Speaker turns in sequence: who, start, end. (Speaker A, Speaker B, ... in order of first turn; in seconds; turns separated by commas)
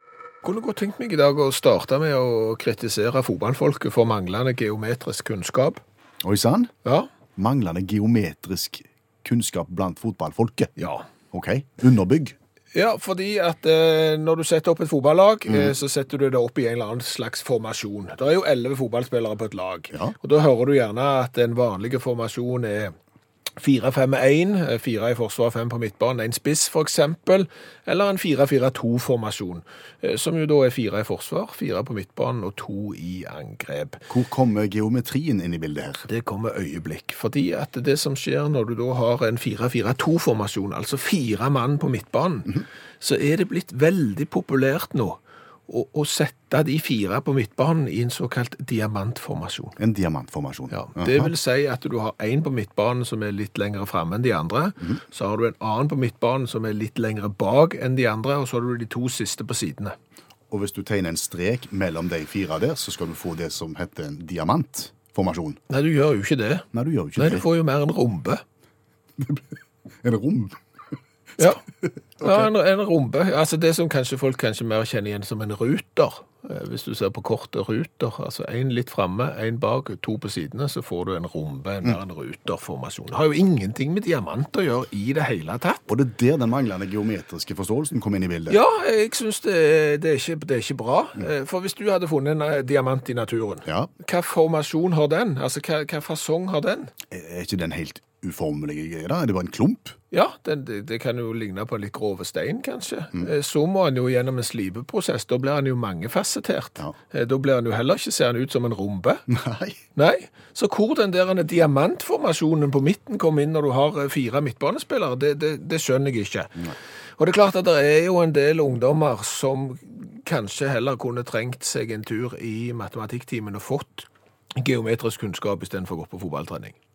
Speaker A: 0.4-5.8, Speaker B: 6.2-6.7, Speaker B: 7.4-10.7, Speaker A: 10.8-11.1, Speaker B: 11.3-12.3, Speaker A: 12.7-22.9, Speaker B: 15.5-15.8, Speaker A: 23.6-34.0, Speaker B: 34.1-36.1, Speaker A: 36.1-49.8, Speaker B: 49.8-51.3, Speaker A: 50.7-60.0, Speaker B: 60.5-65.6, Speaker A: 65.7-68.4, Speaker B: 66.7-67.5, Speaker B: 69.2-69.5, Speaker B: 70.0-70.6, Speaker A: 71.4-71.7, Speaker B: 71.8-72.5, Speaker A: 72.2-85.8, Speaker B: 85.9-88.6, Speaker A: 88.5-96.9, Speaker B: 93.7-93.9, Speaker B: 97.1-100.0, Speaker A: 100.1-109.3, Speaker B: 109.3-109.8, Speaker A: 110.0-126.8